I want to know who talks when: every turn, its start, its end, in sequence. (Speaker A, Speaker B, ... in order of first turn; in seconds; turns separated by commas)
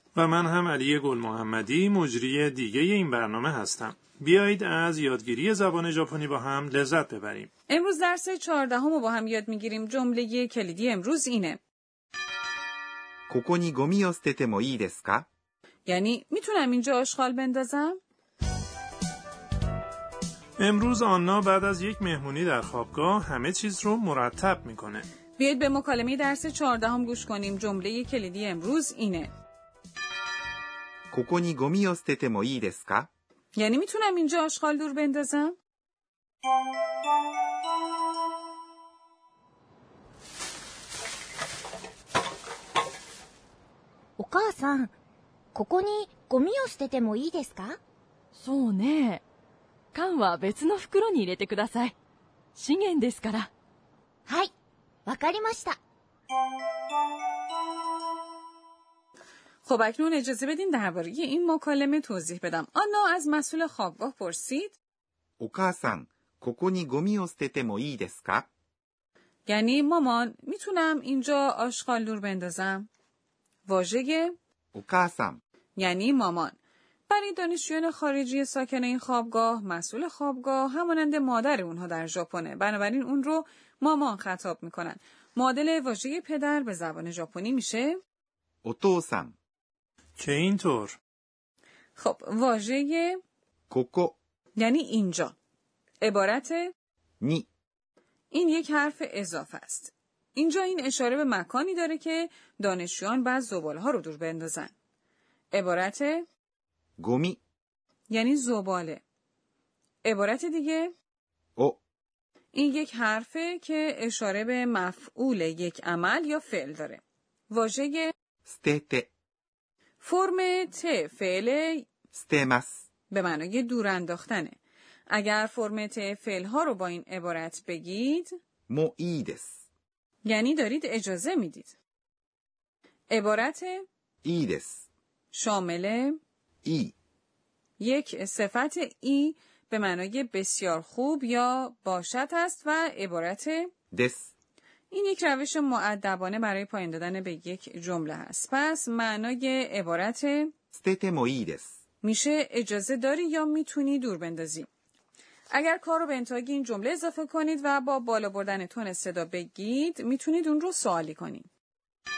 Speaker A: 0.1-7.5, Speaker B: 7.7-11.6, Speaker C: 13.3-15.3, Speaker B: 15.9-18.0, Speaker A: 20.6-25.1, Speaker B: 25.4-29.3, Speaker C: 31.1-33.1, Speaker B: 33.6-35.5, Speaker D: 44.2-44.9, Speaker D: 45.5-47.8, Speaker E: 48.4-49.2, Speaker E: 49.9-52.0, Speaker E: 52.5-53.5, Speaker D: 54.3-54.5, Speaker D: 55.1-55.8, Speaker B: 59.6-64.8, Speaker C: 65.4-68.5, Speaker B: 69.5-72.9, Speaker B: 73.7-74.3, Speaker C: 74.7-75.4, Speaker B: 75.8-76.6, Speaker B: 77.1-88.0, Speaker C: 88.6-89.4, Speaker A: 90.2-91.0, Speaker B: 92.0-93.2, Speaker C: 93.7-94.2, Speaker B: 94.6-95.4, Speaker B: 96.0-96.7, Speaker C: 97.2-97.5, Speaker B: 98.3-104.7, Speaker B: 105.5-106.3, Speaker C: 107.0-107.4, Speaker B: 108.1-109.0, Speaker B: 110.0-110.9, Speaker B: 112.5-118.1, Speaker C: 118.5-119.1, Speaker B: 120.0-121.8, Speaker C: 122.1-122.8, Speaker B: 123.1-124.6, Speaker B: 125.1-128.3, Speaker C: 128.7-129.6, Speaker B: 130.2-131.8, Speaker B: 133.1-133.8, Speaker C: 134.2-134.8, Speaker B: 135.3-136.2, Speaker C: 136.6-136.9, Speaker B: 137.8-143.7, Speaker C: 143.9-144.3, Speaker B: 144.9-150.5, Speaker C: 150.7-151.7, Speaker B: 152.0-154.7, Speaker B: 155.5-161.5